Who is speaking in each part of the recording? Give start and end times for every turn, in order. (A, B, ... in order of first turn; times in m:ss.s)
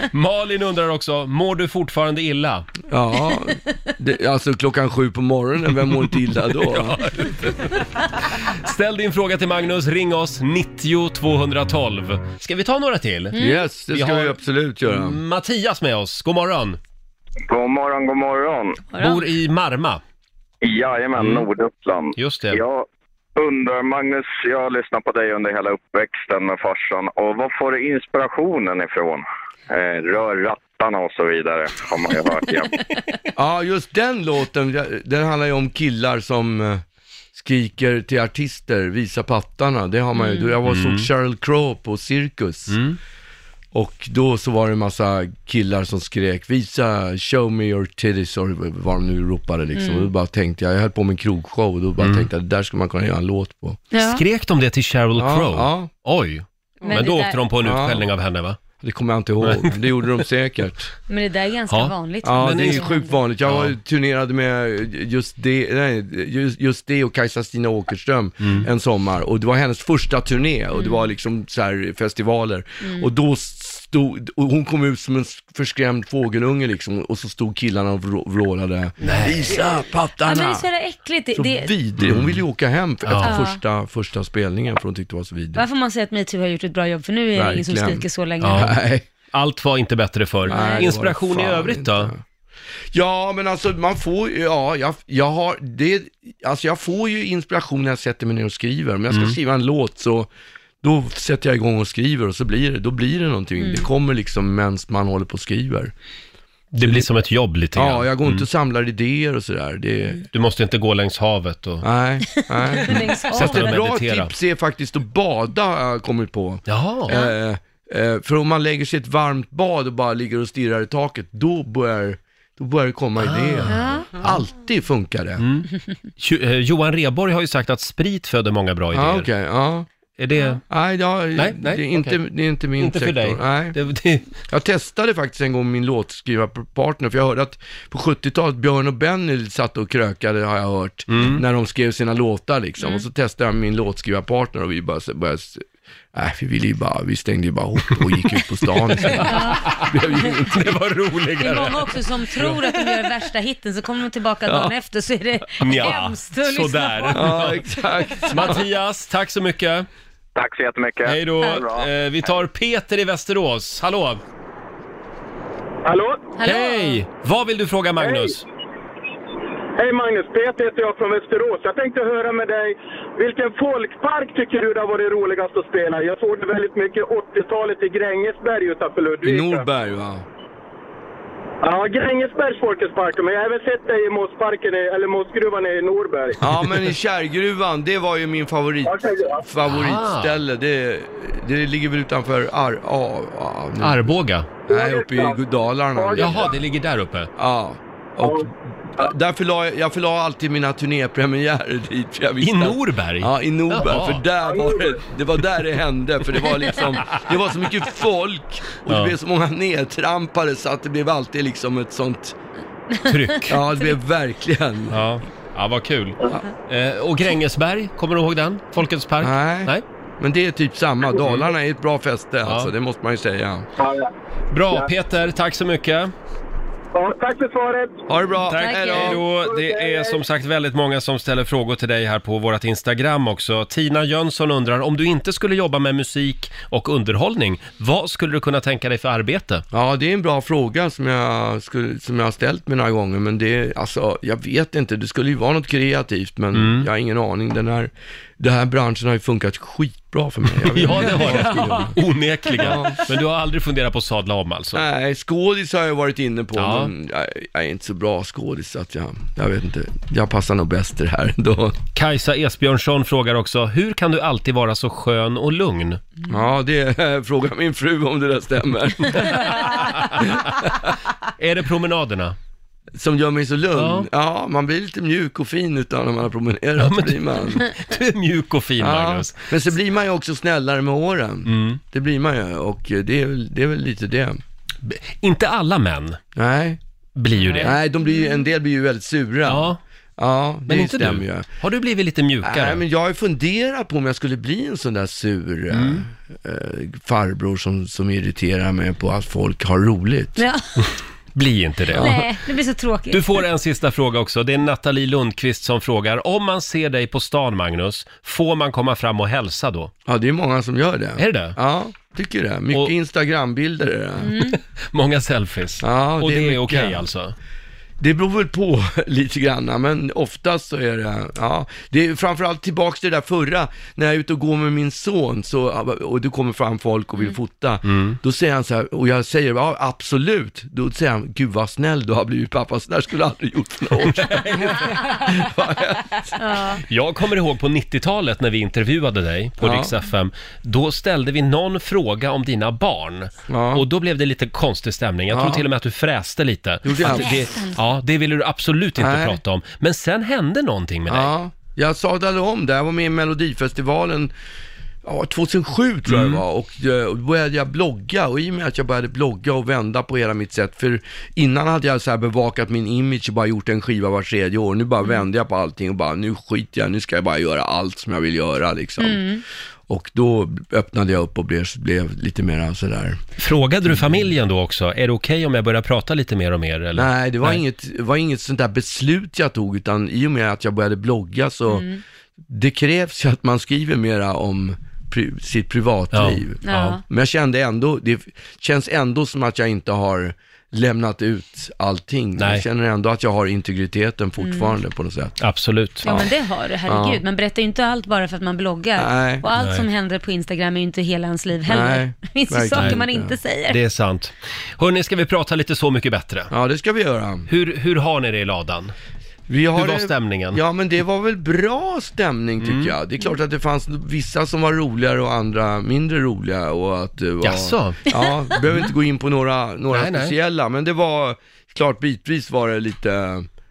0:00.1-0:02.7 A
0:02.9-0:07.0 B
0:06.6-0:13.4 A
0:13.3-0:13.6 C
0:13.4-0:15.2 B
0:13.9-0:16.8 A
0:17.5-0:18.8 D
0:18.9-0:19.2 C
0:19.0-0:20.0 A
0:20.6-0:32.7 D
0:21.2-0:21.4 A
0:22.2-0:22.6 A
0:33.4-0:36.8 B
0:37.3-0:42.8 B
0:40.1-0:40.5 C
0:40.6-0:41.1 A
0:42.7-0:43.0 A
0:43.7-0:53.8 B
0:49.7-0:50.1 C
0:52.0-0:52.3 A
0:53.9-0:54.2 C
0:54.0-0:58.6 A
0:55.2-0:55.9 B
0:56.8-0:57.4 C
0:57.6-0:58.1 B
0:58.7-1:00.9 B
0:59.4-0:59.7 A
1:01.1-1:03.2 C
1:01.7-1:02.9 A
1:02.2-1:20.7 B
1:03.4-1:03.8 A
1:08.4-1:08.7 A
1:10.7-1:11.1 C
1:12.8-1:13.1 C
1:19.0-1:19.5 A
1:19.0-1:19.6 C
1:20.2-1:21.7 C
1:21.3-1:25.6 B
1:22.0-1:22.4 A
1:23.0-1:23.4 A
1:23.2-1:23.6 C
1:25.5-1:28.7 C
1:27.3-1:29.0 B
1:28.4-1:28.7 A
1:29.3-1:32.1 A
1:30.4-1:32.2 B
1:30.4-1:30.9 C
1:32.9-1:45.9 B
1:39.1-1:39.4 A
1:43.6-1:43.9 C
1:46.7-1:48.4 A
1:46.8-1:47.1 B
1:47.7-1:50.2 B
1:50.3-1:51.8 A
1:51.8-2:05.4 B
1:52.7-1:53.8 C
1:52.9-1:54.3 A
1:56.7-1:57.1 A
1:57.1-1:57.3 C
2:03.2-2:04.4 A
2:03.6-2:04.1 C
2:05.4-2:09.3 A
2:08.9-2:09.9 B
2:10.2-2:10.6 A
2:10.7-2:13.8 B
2:11.4-2:12.2 A
2:12.8-2:14.3 A
2:14.5-2:30.8 B
2:21.1-2:21.4 A
2:22.8-2:23.0 C
2:29.0-2:29.8 A
2:29.1-2:29.8 C
2:30.4-2:32.8 A
2:31.4-2:37.3 C
2:34.5-2:34.7 B
2:35.6-2:37.6 A
2:37.1-2:38.6 B
2:38.3-2:39.9 A
2:40.3-2:41.9 D
2:41.0-2:44.2 A
2:45.8-2:46.3 E
2:46.4-2:47.0 C
2:46.4-2:48.4 A
2:48.0-2:48.3 E
2:49.8-2:59.6 E
2:59.2-3:00.2 B
3:01.6-3:06.4 E
3:06.4-3:16.6 B
3:08.8-3:09.4 E
3:09.6-3:10.4 A
3:13.8-3:14.6 A
3:14.7-3:15.4 E
3:16.0-3:16.4 E
3:16.2-3:17.3 A
3:17.4-3:32.4 B
3:22.4-3:24.2 A
3:24.5-3:24.9 E
3:28.9-3:29.2 A
3:33.0-3:33.6 A
3:33.4-3:35.0 B
3:34.9-3:39.8 A
3:39.2-3:43.7 B
3:41.2-3:41.5 A
3:42.4-3:42.7 A
3:43.8-3:44.1 E
3:44.5-3:46.1 A
3:46.9-3:48.0 E
3:48.1-3:49.3 B
3:48.5-3:59.6 A
3:48.6-3:49.1 C
3:49.4-3:50.1 E
3:59.7-4:12.0 B
4:06.5-4:06.9 A
4:10.6-4:14.8 A
4:12.5-4:13.0 B
4:14.7-4:21.8 B
4:16.6-4:16.9 A
4:21.9-4:26.1 A
4:26.3-4:30.9 B
4:29.2-4:30.4 A
4:31.4-4:32.4 A
4:33.0-4:37.7 B
4:33.7-4:34.1 A
4:36.8-4:39.6 A
4:38.8-4:44.4 B
4:41.4-4:41.8 A
4:44.8-4:46.2 A
4:46.3-4:46.8 B
4:47.2-4:47.8 A
4:47.4-4:47.7 C
4:47.6-4:51.5 B
4:49.4-4:49.8 A
4:50.7-4:52.8 A
4:52.4-5:00.4 B
4:55.7-4:56.0 A
5:00.4-5:00.6 C
5:01.3-5:02.2 A
5:02.0-5:03.4 C
5:03.1-5:09.9 A
5:10.0-5:14.4 B
5:11.2-5:11.6 A
5:14.2-5:14.6 C
5:14.5-5:17.3 A
5:15.8-5:17.1 B
5:18.0-5:36.4 B
5:27.8-5:28.2 A
5:34.0-5:35.0 A
5:36.4-5:36.8 C
5:36.8-5:51.3 A
5:39.6-5:39.9 B
5:43.5-5:43.8 B
5:45.3-5:45.6 B
5:46.8-5:47.5 B
5:47.0-5:47.8 C
5:49.0-5:49.4 B
5:51.1-5:54.3 B
5:55.0-6:09.2 B
5:56.1-5:56.4 A
6:09.0-6:09.4 C
6:09.9-6:13.2 B
6:13.4-6:17.6 A
6:13.9-6:14.2 B
6:16.9-6:21.9 B
6:21.7-6:22.0 C
6:22.5-6:35.4 B
6:26.1-6:27.0 A
6:26.6-6:27.0 C
6:32.4-6:32.6 A
6:34.4-6:34.8 C
6:35.4-6:36.2 A
6:36.0-6:43.8 C
6:36.8-6:37.2 B
6:39.0-6:39.4 B
6:39.6-6:39.8 A
6:41.6-6:43.4 B
6:42.7-6:43.0 A
6:43.7-6:46.5 A
6:46.5-6:47.5 B
6:47.5-6:48.9 A
6:49.5-7:03.5 B
6:49.7-6:50.6 A
6:52.6-6:52.9 A
6:57.4-6:58.0 A
6:59.9-7:00.3 A